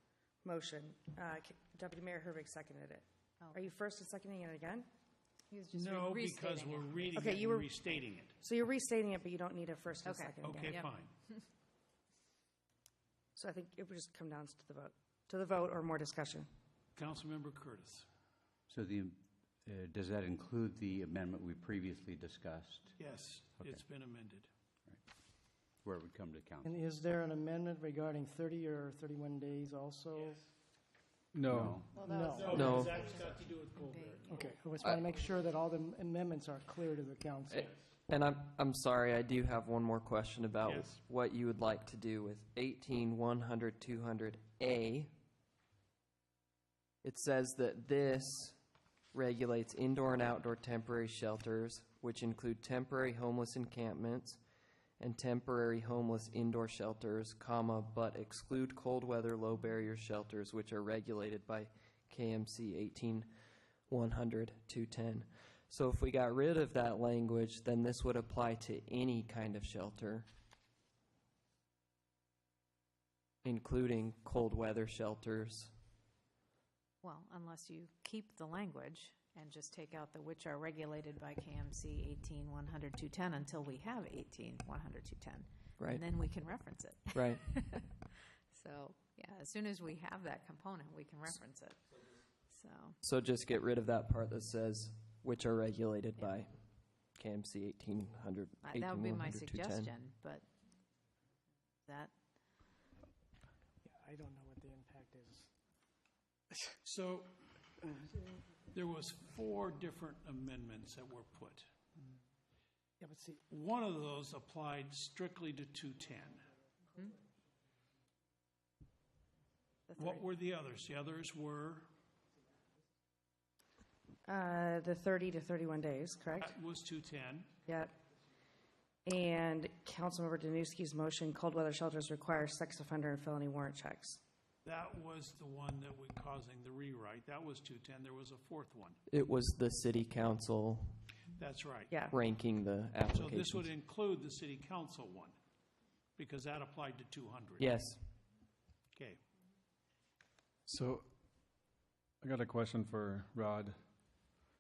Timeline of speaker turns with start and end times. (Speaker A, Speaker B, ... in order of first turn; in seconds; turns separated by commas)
Speaker A: 0.4-4.9, Speaker B: 3.4-3.7, Speaker B: 5.5-7.2, Speaker C: 5.7-8.3, Speaker A: 7.2-7.8, Speaker A: 8.4-10.8, Speaker B: 10.1-10.9, Speaker C: 10.4-11.1, Speaker A: 13.4-16.5, Speaker C: 16.9-18.1, Speaker D: 18.7-22.9, Speaker C: 23.0-24.5, Speaker D: 23.6-23.8, Speaker D: 25.8-26.8, Speaker E: 26.6-30.4, Speaker F: 31.3-31.8, Speaker D: 31.5-31.9, Speaker B: 31.9-34.5, Speaker E: 32.0-32.7, Speaker C: 32.2-34.5, Speaker G: 32.5-33.0, Speaker E: 34.3-37.7, Speaker G: 37.5-45.1, Speaker C: 40.6-40.9, Speaker G: 47.0-48.6, Speaker G: 49.1-54.4, Speaker G: 55.0-63.3, Speaker G: 63.9-70.3, Speaker G: 73.4-75.7, Speaker B: 77.0-87.9, Speaker G: 87.2-87.5, Speaker B: 88.5-91.8, Speaker B: 92.5-93.0, Speaker G: 93.0-96.5, Speaker G: 97.2-99.9, Speaker B: 98.7-100.5, Speaker B: 101.9-102.1, Speaker E: 103.8-105.5, Speaker C: 106.8-107.3, Speaker C: 108.7-111.7, Speaker E: 113.0-113.4, Speaker C: 113.5-116.5, Speaker B: 119.9-120.2, Speaker C: 120.0-121.9, Speaker A: 124.2-126.5, Speaker C: 126.4-127.5, Speaker A: 127.7-127.9, Speaker A: 129.1-134.2, Speaker C: 134.7-139.0, Speaker G: 139.1-141.0, Speaker C: 141.4-141.9, Speaker G: 142.1-143.7, Speaker C: 143.1-145.3, Speaker C: 146.2-147.7, Speaker G: 147.6-148.0, Speaker C: 148.9-149.2, Speaker F: 150.7-151.1, Speaker F: 152.2-153.8